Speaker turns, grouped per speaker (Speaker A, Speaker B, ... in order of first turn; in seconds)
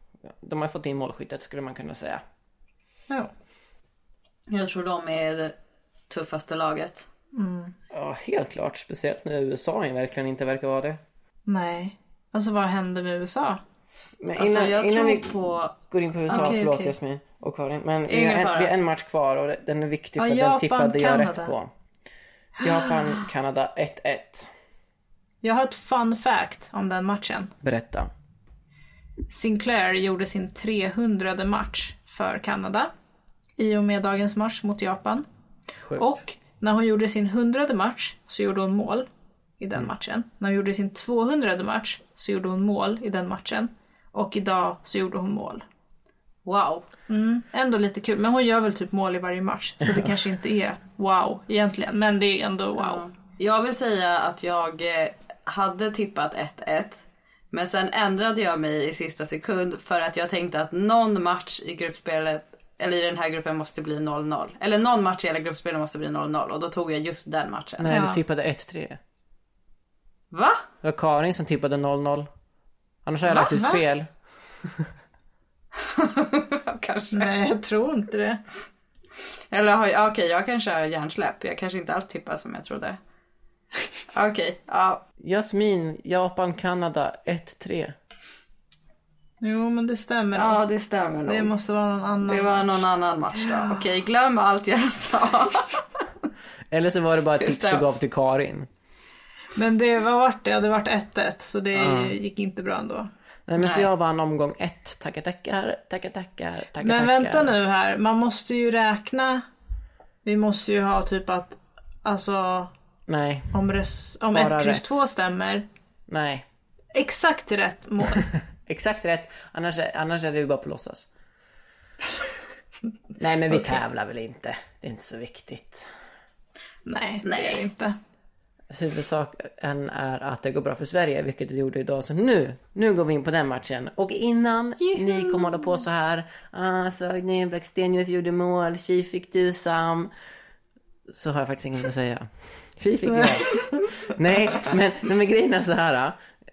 Speaker A: 0.3-2.2, 7.9-11.0, 14.2-21.7, 22.6-24.5, 27.6-28.1, 35.9-36.1, 67.8-69.0, 70.8-72.3, 73.0-74.1, 85.2-88.0, 96.7-98.7, 101.8-102.2, 103.5-107.5, 113.1-113.5, 114.3-115.0, 116.1-116.5, 118.6-121.1, 123.2-125.9, 128.7-140.1, 141.1-146.2
Speaker B: 4.5-5.5, 6.1-7.1, 14.4-15.7, 16.3-16.6, 18.1-18.7, 46.5-46.9, 52.8-67.9, 70.3-70.6, 75.8-77.3, 79.5-83.0, 84.1-85.0, 90.3-91.5, 92.2-95.8, 97.4-97.8, 103.6-103.9, 127.2-127.7
Speaker C: 7.3-7.7, 11.5-13.6, 16.3-16.9, 20.2-21.5, 25.4-27.5, 29.3-32.9, 33.6-35.2, 35.9-39.1, 39.6-45.6, 47.1-53.0, 67.9-68.2, 77.1-78.4, 89.4-90.6, 91.2-92.8, 99.5-103.1, 106.8-109.4, 110.2-112.7, 113.5-115.7, 116.9-118.3, 126.8-128.0